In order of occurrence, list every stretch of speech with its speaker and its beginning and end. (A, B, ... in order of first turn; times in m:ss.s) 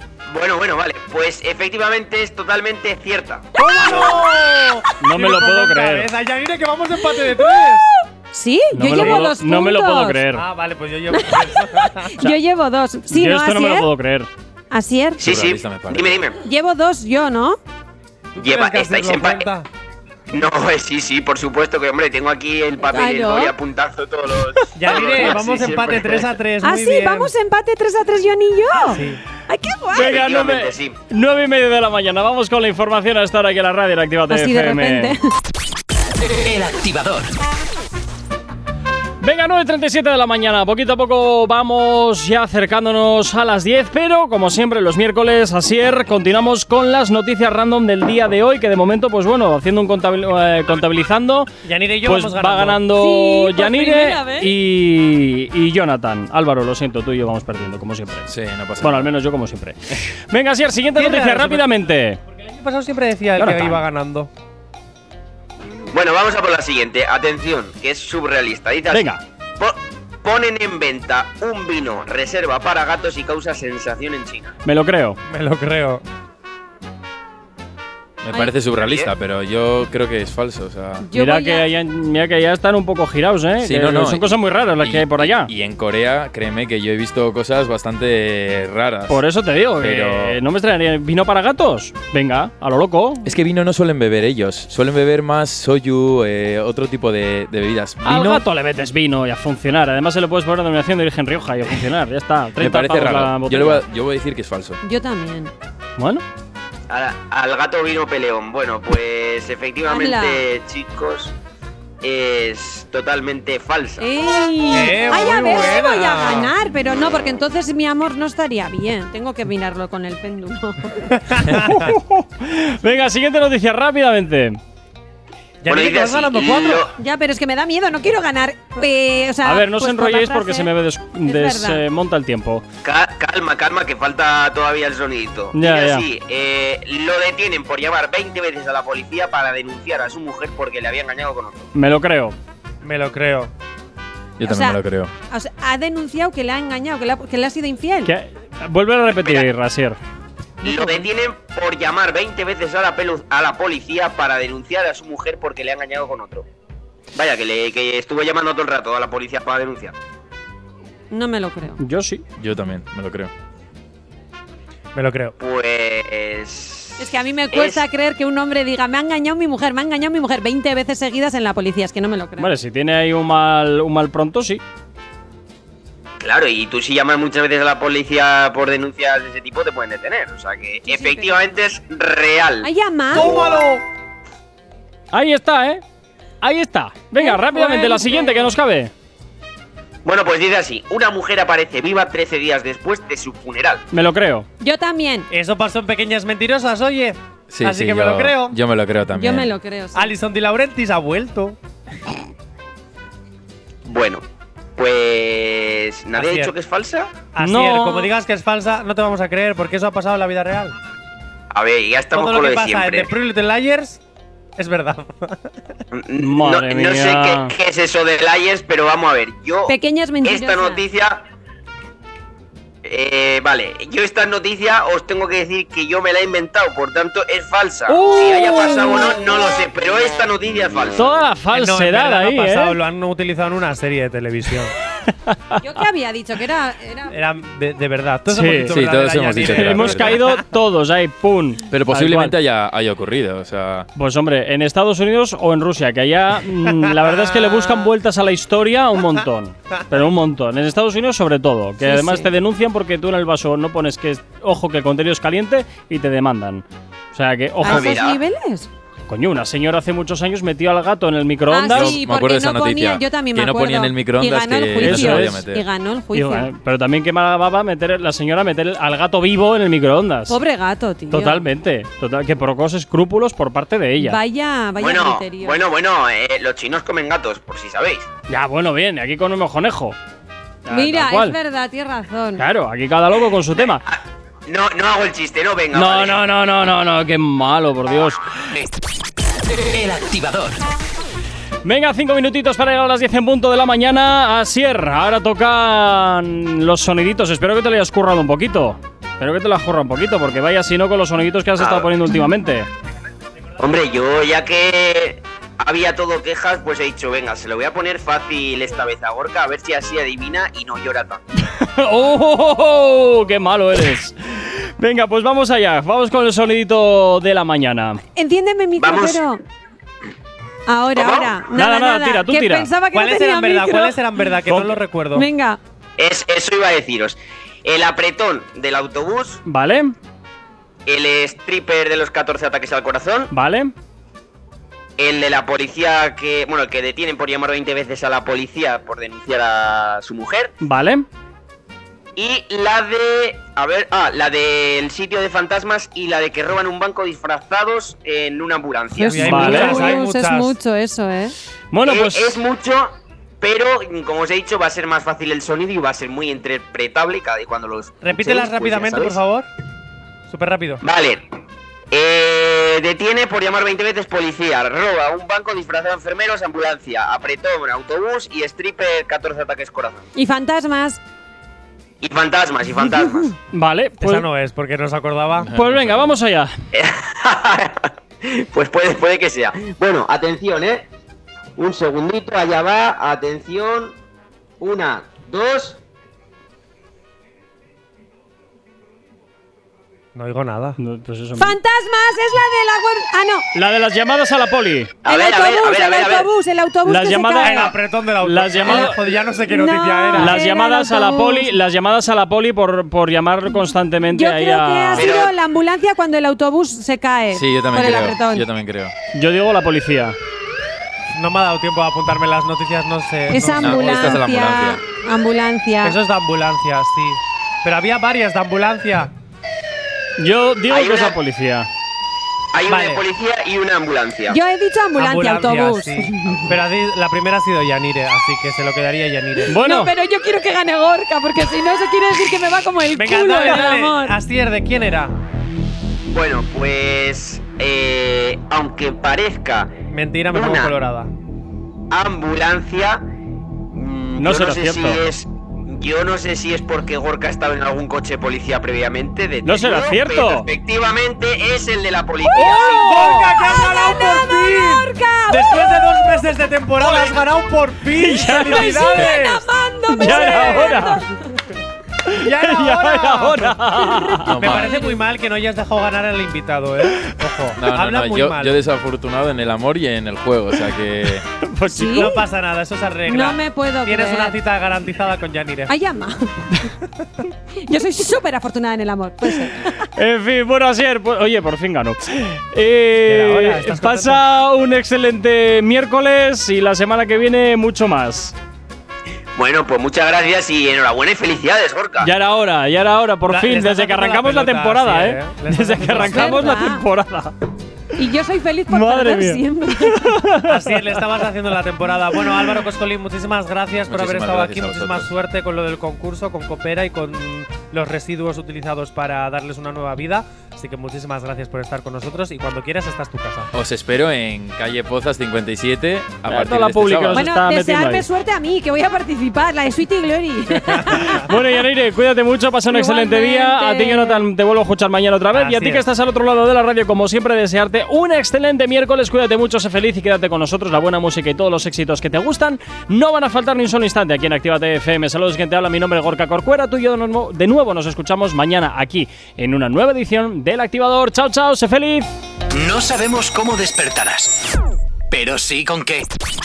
0:00.3-0:03.5 A
0:03.6-0:07.9 B
0:05.0-0:06.1 C
0:07.2-0:10.2 D
0:08.7-0:10.4 C
0:08.9-0:09.2 B
0:10.3-0:12.2 B
0:11.1-0:13.9 D
0:13.1-0:14.3 C
0:14.7-0:15.2 D
0:15.2-0:16.4 A
0:15.2-0:16.2 E
0:16.4-0:17.6 D
0:18.4-0:19.7 B
0:18.4-0:19.5 A
0:20.3-0:26.4 A
0:22.9-0:23.5 D
0:24.7-0:27.3 B
0:26.6-0:30.1 D
0:28.9-0:29.2 B
0:29.9-0:35.2 C
0:30.0-0:31.0 A
0:34.3-0:35.2 D
0:36.4-0:37.3 F
0:39.2-0:51.5 C
0:51.6-0:52.8 B
0:52.0-0:58.3 C
0:52.9-0:54.5 D
0:58.3-0:59.1 E
0:58.8-1:02.2 C
1:01.0-1:01.6 B
1:02.4-1:04.3 B
1:03.4-1:03.8 C
1:05.9-1:14.5 A
1:08.9-1:09.2 C
1:14.6-1:15.2 C
1:15.3-1:16.0 B
1:18.2-1:21.0 E
1:18.7-1:19.1 A
1:21.0-1:21.7 D
1:21.1-1:25.5 C
1:23.6-1:29.2 E
1:29.1-1:33.3 C
1:29.8-1:30.4 E
1:33.2-1:38.4 E
1:38.0-1:43.8 C
1:42.6-1:44.8 E
1:44.8-1:45.5 D
1:46.0-1:46.2 C
1:46.9-1:51.3 A
1:49.9-1:50.4 D
1:52.0-1:54.1 A
1:54.0-2:01.1 D
1:54.7-1:56.5 B
2:01.1-2:01.9 B
2:01.5-2:04.6 C
2:05.6-2:06.9 B
2:05.7-2:06.9 A
2:07.0-2:10.7 D
2:09.4-2:12.6 C
2:11.2-2:11.8 D
2:12.8-2:21.7 A
2:15.5-2:16.0 C
2:21.7-2:22.4 C
2:22.8-2:23.5 B
2:24.4-2:25.1 E
2:24.4-2:24.8 D
2:25.3-2:28.1 D
2:28.0-2:30.0 C
2:29.1-2:29.4 A
2:30.6-2:31.1 D
2:30.6-2:36.4 A
2:37.1-2:39.9 A
2:41.1-2:41.8 D
2:41.8-2:42.2 C
2:42.4-2:43.3 E
2:44.9-2:45.4 B
2:45.4-2:47.8 A
2:47.0-2:52.5 D
2:52.4-2:54.6 C
2:56.2-3:02.7 A
3:00.9-3:01.3 D
3:02.6-3:03.5 D
3:03.1-3:03.8 B
3:05.1-3:05.8 C
3:06.4-3:08.9 C
3:07.2-3:08.5 D
3:10.0-3:13.8 A
3:13.9-3:14.4 C
3:14.6-3:15.3 D
3:15.3-3:18.6 B
3:17.5-3:19.5 E
3:19.1-3:20.1 D
3:19.9-3:21.6 B
3:23.8-3:24.2 A
3:24.8-3:27.2 A
3:26.2-3:26.5 B
3:27.3-3:30.7 B
3:27.4-3:28.1 C
3:31.5-3:33.1 A
3:32.1-3:34.0 B
3:34.6-3:35.4 B
3:35.9-3:41.2 A
3:36.2-3:37.5 C
3:39.7-3:40.8 D
3:42.8-3:51.1 A
3:47.9-3:49.1 C
3:51.0-3:52.8 C
3:51.5-3:54.7 B
3:55.3-3:55.6 C
3:55.6-3:57.2 D
3:57.1-4:00.4 B
3:58.3-3:58.8 C
3:58.7-4:00.2 E
3:59.4-4:02.3 C
4:01.7-4:03.9 E
4:04.0-4:18.0 C
4:07.1-4:07.8 B
4:11.8-4:12.3 D
4:17.6-4:18.7 D
4:17.6-4:18.2 A
4:19.1-4:22.0 C
4:21.5-4:26.5 D
4:21.7-4:25.6 E
4:24.8-4:25.4 C
4:26.1-4:30.4 C
4:30.3-4:31.4 D
4:31.1-4:34.2 C
4:34.0-4:35.6 D
4:34.8-4:38.1 A
4:38.3-4:40.0 C
4:40.6-4:41.4 C
4:40.7-4:42.4 D
4:42.4-4:43.8 C
4:43.5-4:46.2 A
4:45.7-4:48.2 C
4:49.6-4:50.6 F
4:51.6-5:02.7 C
5:01.6-5:01.9 A
5:03.6-5:11.2 A
5:11.4-5:18.0 C
5:18.2-5:19.4 D
5:18.8-5:19.2 A
5:20.7-5:24.0 D
5:20.9-5:21.4 A
5:21.5-5:22.7 C
5:22.9-5:25.3 B
5:24.5-5:24.8 C
5:25.1-5:25.6 D
5:26.0-5:29.4 A
5:29.5-5:29.9 C
5:30.8-5:33.3 A
5:33.3-5:33.7 C
5:35.0-5:40.5 A
5:40.6-5:41.0 C
5:42.2-5:49.8 A
5:48.9-5:51.3 D
5:49.1-5:50.5 B
5:49.2-5:50.0 C
5:51.7-5:52.4 C
5:51.8-5:59.2 A
5:58.0-5:59.5 B
6:00.3-6:00.8 B
6:00.8-6:01.2 A
6:01.9-6:10.0 A
6:10.1-6:11.0 D
6:12.0-6:13.3 A
6:13.5-6:14.3 C
6:14.0-6:15.5 B
6:15.3-6:16.2 E
6:15.5-6:16.5 C
6:16.7-6:20.8 A
6:21.6-6:23.9 A
6:24.6-6:25.8 A
6:30.1-6:30.8 B
6:30.8-6:31.6 C
6:31.4-6:33.4 D
6:33.5-6:35.0 C
6:35.0-6:36.3 A
6:35.0-6:37.7 D
6:36.8-6:39.0 C
6:37.4-6:40.4 B
6:38.6-6:38.9 D
6:39.5-6:41.5 D
6:40.1-6:45.1 C
6:44.1-6:48.5 D
6:45.0-6:45.3 A
6:47.3-6:48.9 E
6:49.1-6:50.2 C
6:51.1-6:54.2 B
6:53.3-6:56.0 D
6:53.5-6:54.8 E
6:55.8-6:59.1 B
7:00.2-7:01.7 C
7:00.7-7:01.2 A
7:02.5-7:04.4 A
7:02.7-7:03.0 B
7:04.3-7:06.4 D
7:05.0-7:09.5 B
7:09.5-7:09.9 C
7:09.5-7:14.2 D
7:12.9-7:15.2 B
7:16.1-7:19.7 A
7:19.9-7:21.1 B
7:20.3-7:20.7 A
7:21.9-7:23.0 A
7:23.7-7:33.0 A
7:24.2-7:25.0 C
7:29.4-7:30.5 C
7:32.2-7:36.2 D
7:32.4-7:33.3 C
7:32.4-7:39.4 B
7:36.8-7:37.1 C
7:38.0-7:39.1 C
7:38.4-7:41.3 D
7:40.0-7:41.0 C
7:40.0-7:40.7 B
7:42.1-7:43.6 B
7:42.1-7:44.4 C
7:44.0-7:45.0 D
7:44.3-7:44.7 E
7:44.4-7:48.6 B
7:47.6-7:51.3 E
7:51.4-7:52.2 C
7:51.7-7:52.2 D
7:51.9-7:55.7 B
7:53.1-7:54.4 D
7:55.7-7:56.6 D
7:57.6-7:59.8 D
7:59.9-8:08.3 C
8:03.1-8:04.2 B
8:09.4-8:12.1 A
8:12.0-8:17.3 C
8:13.2-8:16.6 B
8:16.0-8:16.8 D
8:18.0-8:20.2 D
8:18.7-8:21.0 C
8:20.5-8:33.5 B
8:23.9-8:25.1 E
8:33.5-8:37.3 E
8:36.3-8:38.0 C
8:37.1-8:41.3 D
8:40.8-9:02.1 C
8:42.7-8:44.2 D
8:45.3-8:45.8 B
9:02.5-9:04.4 F
9:05.1-9:06.0 F